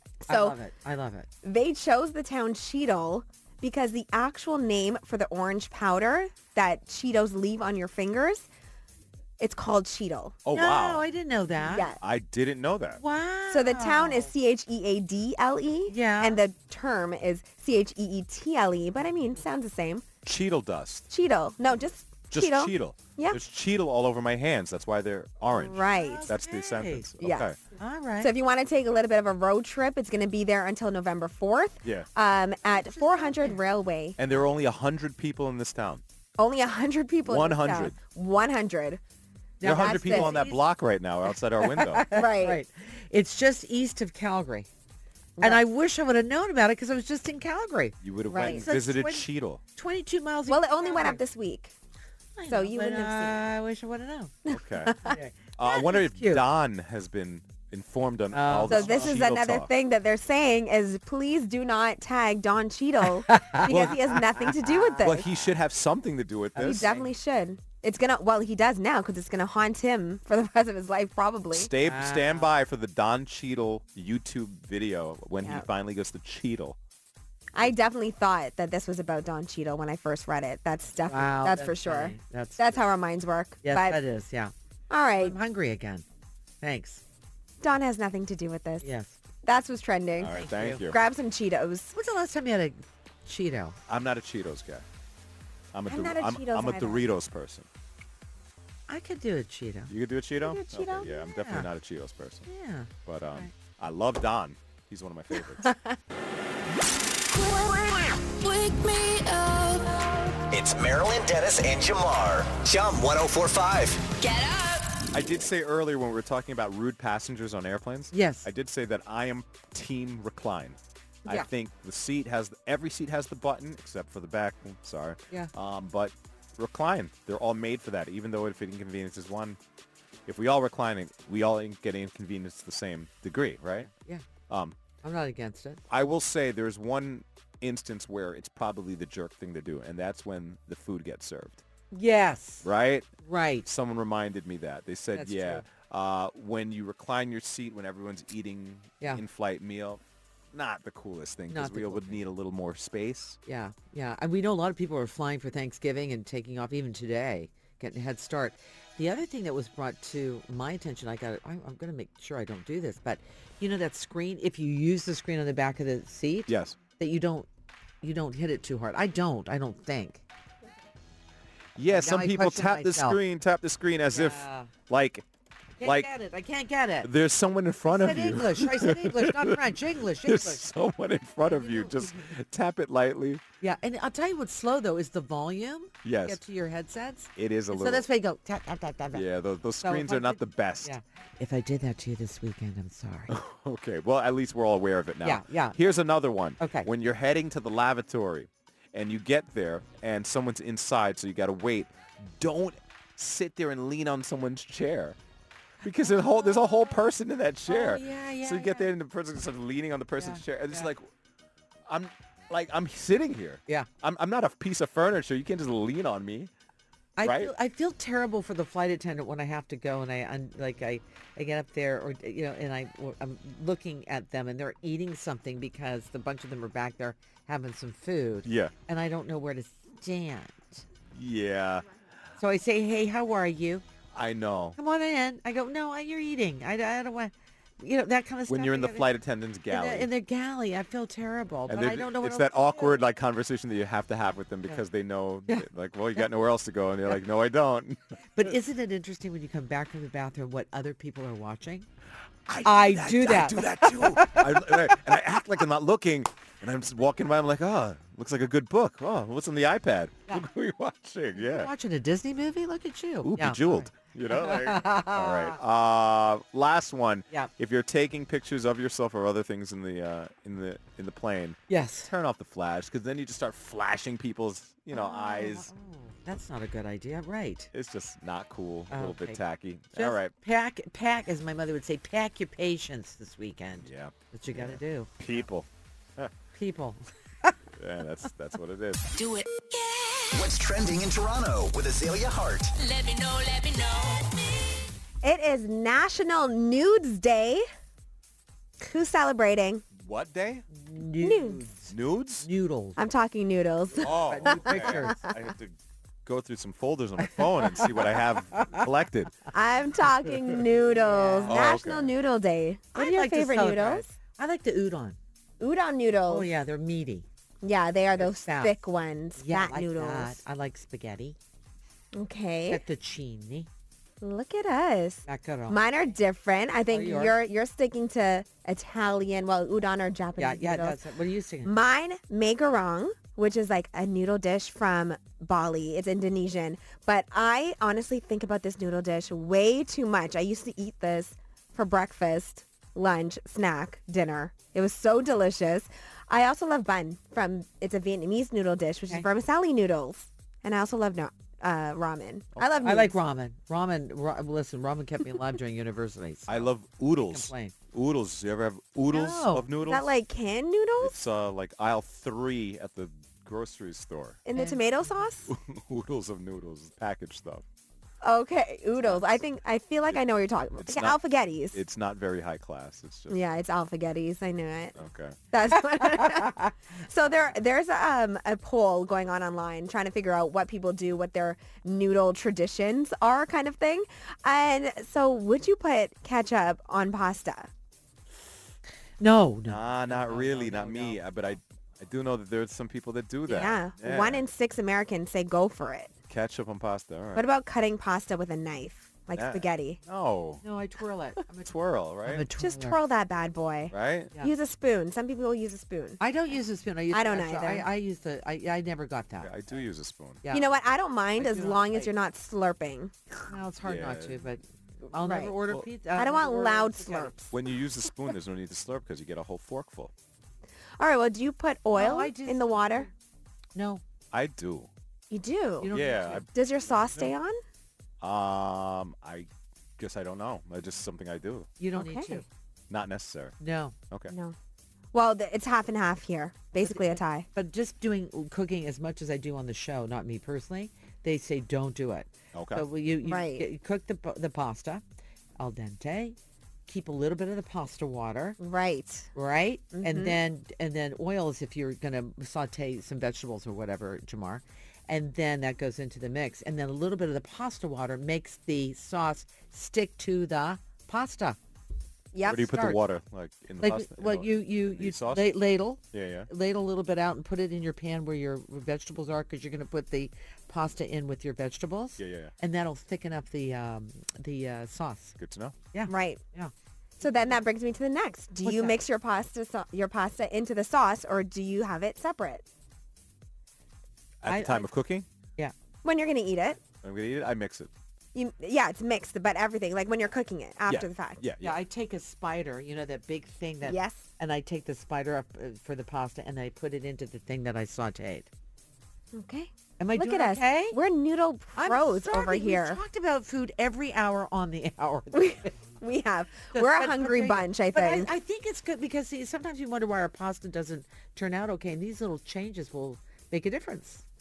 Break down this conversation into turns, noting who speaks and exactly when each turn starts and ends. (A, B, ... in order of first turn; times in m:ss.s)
0:00.2-0:00.6 A
0:00.3-0:01.3 B
0:01.4-0:08.5 A
0:09.4-0:10.4 A
0:10.4-0:11.1 C
0:10.5-0:11.9 B
0:11.7-0:12.0 A
0:12.0-0:13.0 C
0:13.0-0:14.3 B
0:13.5-0:20.0 A
0:15.9-0:16.4 B
0:20.2-0:21.1 C
0:21.1-0:23.4 A
0:22.3-0:27.6 C
0:25.5-0:26.3 A
0:25.8-0:27.1 B
0:27.2-0:27.5 A
0:27.8-0:28.3 B
0:28.2-0:34.2 A
0:32.8-0:33.6 B
0:34.2-0:36.0 C
0:36.4-0:39.0 A
0:37.2-0:38.0 C
0:39.6-0:40.6 B
0:39.6-0:40.4 A
0:39.6-0:42.1 C
0:41.6-0:44.7 B
0:42.1-0:42.6 A
0:45.4-0:45.6 A
0:45.4-0:51.2 B
0:48.0-0:49.6 C
0:48.3-0:48.6 A
0:50.5-0:51.7 A
0:52.4-0:54.4 B
0:52.5-0:53.4 A
0:54.4-0:55.2 A
0:54.5-0:55.0 C
0:55.0-0:56.4 B
0:55.6-0:59.7 C
0:58.3-0:59.2 B
0:58.7-1:05.3 A
1:03.2-1:04.7 B
1:03.7-1:04.0 C
1:05.0-1:06.9 C
1:06.5-1:07.1 B
1:06.6-1:11.7 A
1:11.5-1:16.8 C
1:11.8-1:12.5 B
1:17.5-1:24.0 A
1:21.1-1:22.8 B
1:23.6-1:24.5 B
1:24.9-1:25.4 A
1:25.2-1:26.0 B
1:26.6-1:27.0 B
1:27.6-1:28.9 A
1:28.8-1:29.1 B
1:29.4-1:31.9 A
1:30.2-1:31.0 C
1:30.3-1:30.8 B
1:31.9-1:33.8 B
1:33.9-1:34.8 C
1:35.7-1:37.7 C
1:35.9-1:37.0 A
1:38.9-1:39.9 B
1:39.9-1:42.5 C
1:40.4-1:41.2 A
1:41.1-1:41.7 B
1:42.5-1:43.5 B
1:43.0-1:45.7 C
1:47.3-1:50.3 D
1:50.5-1:54.1 E
1:54.2-1:54.8 D
1:55.1-2:09.6 C
1:58.1-1:58.5 B
2:10.2-2:13.9 C
2:13.8-2:14.2 B
2:14.5-2:14.8 C
2:15.0-2:15.8 B
2:15.9-2:21.6 C
2:21.9-2:22.7 B
2:22.6-2:23.1 C
2:23.2-2:23.7 B
2:23.6-2:30.0 C
2:25.1-2:25.6 B
2:30.5-2:33.4 C
2:31.5-2:32.2 B
2:33.4-2:47.5 B
2:46.5-2:46.8 C
2:48.0-2:50.2 B
2:51.8-2:55.2 C
2:51.9-2:53.2 B
2:54.1-2:54.7 B
2:55.8-2:57.1 B
2:55.8-2:56.1 C
2:57.0-3:03.4 C
2:57.8-3:00.6 B
3:01.5-3:02.3 B
3:03.6-3:09.2 B
3:06.0-3:06.4 C
3:07.4-3:08.0 C
3:09.1-3:11.0 C
3:09.8-3:13.3 B
3:13.3-3:25.2 C
3:15.2-3:15.8 B
3:16.6-3:16.9 B
3:25.8-3:31.1 C
3:26.0-3:27.0 B
3:27.7-3:28.9 B
3:30.2-3:30.9 B
3:31.9-3:36.5 C
3:37.2-3:50.8 B
3:37.2-3:37.5 C
3:48.4-3:48.7 C
3:51.1-3:51.8 C
3:52.4-3:53.8 B
3:54.1-3:54.8 C
3:54.8-3:59.1 B
3:58.5-4:00.1 C
3:59.7-4:03.0 B
4:01.7-4:08.0 C
4:08.4-4:11.9 B
4:12.5-4:21.7 C
4:12.6-4:15.0 B
4:21.3-4:25.6 B
4:23.2-4:35.7 C
4:31.7-4:32.1 B
4:34.9-4:37.7 B
4:37.7-4:40.3 C
4:38.9-4:39.4 B
4:39.9-4:45.1 B
4:43.8-4:46.3 C
4:46.5-4:47.6 B
4:47.8-4:49.1 C
4:49.2-4:50.4 D
4:50.3-4:52.7 E
4:52.8-4:54.5 D
4:55.2-4:57.6 A
4:58.8-4:59.8 A
4:59.9-5:00.6 C
5:00.7-5:03.0 B
5:01.2-5:01.6 A
5:01.9-5:02.5 C
5:03.0-5:05.1 A
5:04.0-5:09.4 C
5:04.2-5:05.2 B
5:07.4-5:08.8 B
5:09.5-5:14.1 A
5:11.0-5:11.6 B
5:11.5-5:12.1 C
5:12.9-5:15.2 B
5:15.6-5:16.5 A
5:16.3-5:17.2 B
5:17.6-5:20.4 A
5:18.2-5:18.8 B
5:19.4-5:21.4 B
5:22.1-5:22.8 A
5:22.7-5:23.7 B
5:24.2-5:31.0 A
5:25.2-5:25.8 B
5:26.9-5:27.4 B
5:30.4-5:31.7 B
5:31.6-5:53.1 A
5:52.8-5:56.7 B
5:56.5-6:00.1 C
5:57.3-5:57.7 B
5:59.1-5:59.6 B
5:59.8-6:01.2 A
6:01.0-6:04.4 C
6:04.4-6:05.5 A
6:04.6-6:05.2 B
6:05.5-6:07.6 C
6:08.2-6:11.8 A
6:09.0-6:09.4 C
6:10.8-6:11.2 C
6:11.7-6:13.4 C
6:13.3-6:15.0 A
6:15.0-6:15.4 C
6:15.5-6:27.7 A
6:16.0-6:16.7 B
6:29.2-6:31.2 B
6:29.7-6:34.4 C
6:33.5-6:36.1 A
6:36.3-6:37.4 C
6:37.3-6:40.0 A
6:39.4-6:40.6 C
6:40.6-6:41.7 B
6:41.6-6:42.5 C
6:42.2-6:43.0 B
6:42.6-6:46.2 A
6:43.9-6:44.3 C
6:46.2-6:49.5 B
6:47.1-6:47.9 A
6:49.4-6:50.4 C
6:50.5-6:53.1 A
6:51.4-6:52.1 B
6:53.5-6:57.3 B
6:53.8-6:54.5 C
6:55.2-6:55.6 A
6:56.1-6:57.5 A
6:57.5-7:00.1 C
7:01.0-7:03.1 A
7:01.9-7:03.1 B
7:03.7-7:04.0 B
7:04.3-7:04.9 C
7:05.3-7:07.6 A
7:05.8-7:06.4 B
7:05.9-7:06.4 C
7:07.0-7:07.3 C
7:08.2-7:11.7 C
7:11.8-7:12.4 B
7:11.9-7:12.4 A
7:12.9-7:13.6 C
7:13.6-7:14.0 B
7:14.3-7:14.6 A
7:15.1-7:17.5 A
7:16.8-7:25.0 B
7:22.5-7:22.8 C
7:23.2-7:23.6 A
7:25.6-7:28.6 B
7:28.6-7:29.3 A
7:29.3-7:41.6 B
7:29.9-7:30.4 A
7:42.3-7:42.8 A
7:42.4-7:45.6 C
7:42.5-7:43.0 B
7:43.8-7:55.4 B
7:46.1-7:46.5 C
7:52.2-7:52.5 C
7:55.4-7:55.8 C
7:55.9-7:56.7 B
7:56.1-7:56.4 A
7:57.2-8:02.6 A
7:58.6-7:59.0 B
8:04.4-8:05.3 C
8:04.5-8:04.9 B
8:06.0-8:06.8 A
8:07.0-8:07.9 C
8:08.3-8:11.4 A
8:10.9-8:11.8 C
8:11.6-8:18.5 B
8:13.8-8:14.2 A
8:19.3-8:23.0 A
8:20.0-8:21.0 B
8:21.8-8:25.8 B
8:25.3-8:28.3 A
8:26.7-8:34.2 B